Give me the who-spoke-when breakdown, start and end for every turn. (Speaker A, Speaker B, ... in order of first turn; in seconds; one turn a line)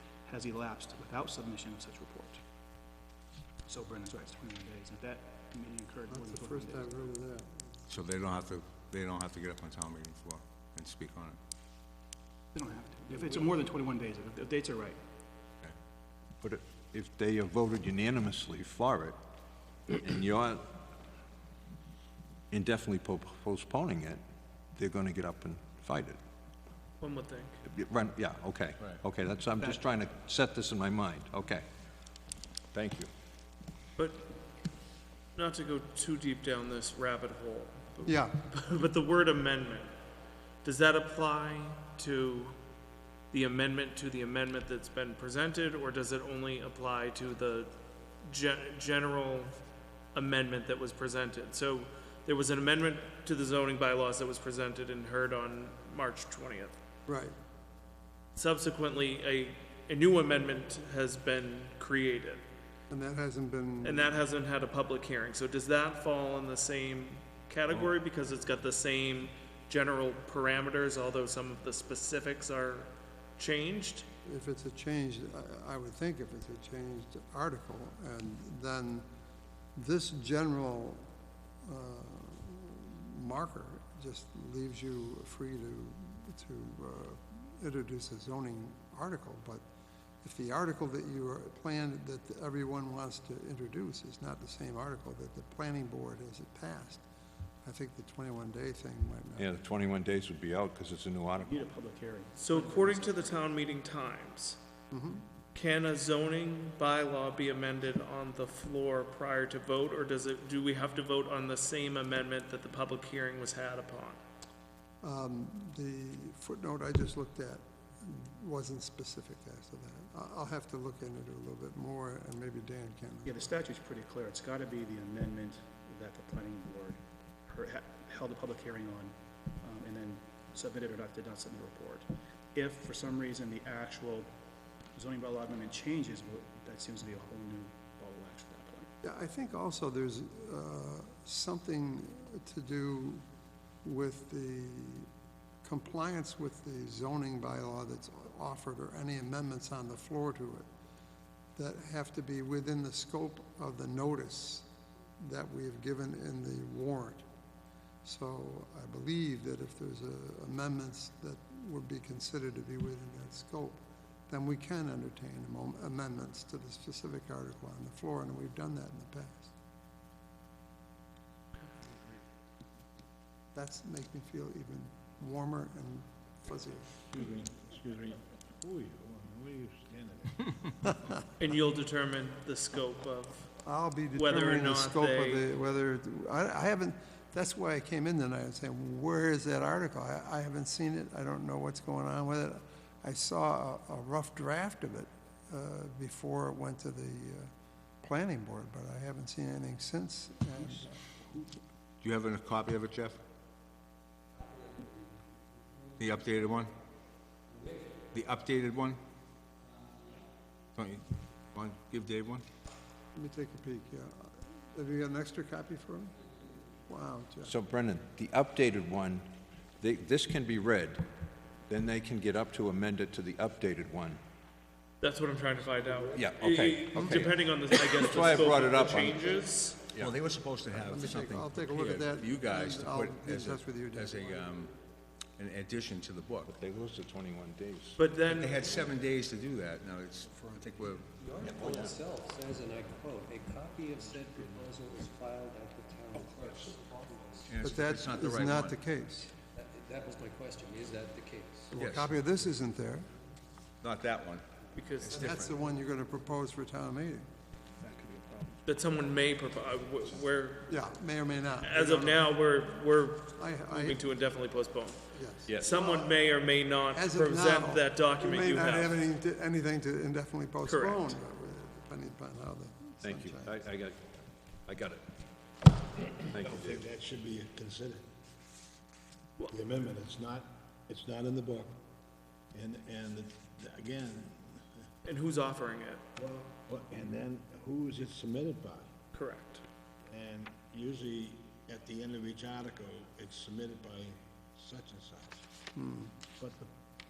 Speaker A: 0.2-2.4
Speaker A: 3.6-7.1
Speaker B: 6.1-7.7
Speaker C: 7.9-11.4
Speaker A: 12.5-15.0
Speaker D: 16.4-19.1
Speaker D: 19.9-20.6
Speaker D: 22.5-24.2
Speaker D: 24.7-26.2
Speaker E: 27.0-27.6
Speaker D: 27.6-31.6
Speaker D: 32.7-33.1
Speaker E: 34.0-34.3
Speaker E: 35.4-40.0
Speaker B: 38.0-38.4
Speaker E: 40.6-42.5
Speaker E: 43.3-49.5
Speaker E: 50.1-56.7
Speaker B: 57.1-57.3
Speaker E: 58.3-62.4
Speaker B: 62.9-64.2
Speaker E: 63.8-74.1
Speaker B: 74.2-79.0
Speaker B: 79.8-81.1
Speaker B: 81.6-89.6
Speaker B: 90.2-97.0
Speaker B: 97.6-99.6
Speaker D: 99.4-101.6
Speaker A: 101.4-103.5
Speaker E: 102.4-104.6
Speaker B: 104.9-105.2
Speaker E: 105.5-114.2
Speaker B: 115.0-123.4
Speaker A: 123.2-134.3
Speaker A: 134.9-138.9
Speaker B: 139.0-143.2
Speaker B: 143.8-145.1
Speaker B: 145.6-150.7
Speaker B: 151.6-154.7
Speaker B: 155.2-157.2
Speaker B: 158.0-169.5
Speaker B: 173.5-176.9
Speaker F: 177.1-180.7
Speaker E: 181.4-183.5
Speaker B: 183.6-197.5
Speaker E: 184.1-185.5
Speaker B: 198.0-200.9
Speaker C: 202.0-203.2
Speaker G: 204.5-205.0
Speaker G: 205.9-206.2
Speaker C: 206.0-206.7
Speaker G: 207.5-208.1
Speaker C: 208.1-209.0
Speaker C: 210.7-212.4
Speaker B: 213.1-216.2
Speaker B: 216.9-217.5
Speaker D: 217.4-219.2
Speaker D: 219.8-221.0
Speaker D: 221.7-224.2
Speaker E: 225.0-229.8
Speaker D: 226.1-229.3
Speaker C: 230.0-234.7
Speaker B: 230.7-234.5
Speaker C: 235.4-236.5
Speaker D: 236.4-238.0
Speaker E: 238.0-238.6
Speaker C: 238.3-241.1
Speaker G: 241.1-247.5
Speaker D: 241.4-241.9
Speaker C: 247.5-248.8
Speaker B: 247.6-249.3
Speaker G: 249.5-251.7
Speaker B: 251.7-253.1
Speaker C: 251.7-252.2
Speaker C: 253.8-254.4
Speaker E: 254.7-255.3
Speaker C: 255.0-255.6
Speaker B: 255.1-257.3
Speaker A: 257.8-258.5
Speaker F: 258.1-258.4
Speaker E: 258.6-260.7
Speaker B: 260.7-262.3
Speaker E: 261.6-265.0
Speaker B: 263.4-264.1
Speaker B: 265.1-266.2
Speaker E: 265.6-269.0
Speaker B: 266.9-273.6
Speaker E: 270.6-271.1
Speaker D: 273.0-274.0
Speaker D: 274.6-275.0
Speaker D: 276.3-276.8
Speaker F: 276.4-278.0
Speaker F: 279.5-281.8
Speaker F: 282.5-284.6
Speaker E: 285.0-286.0
Speaker F: 286.1-288.9
Speaker E: 289.1-289.6
Speaker F: 290.1-295.4
Speaker B: 295.8-296.1
Speaker F: 296.4-296.7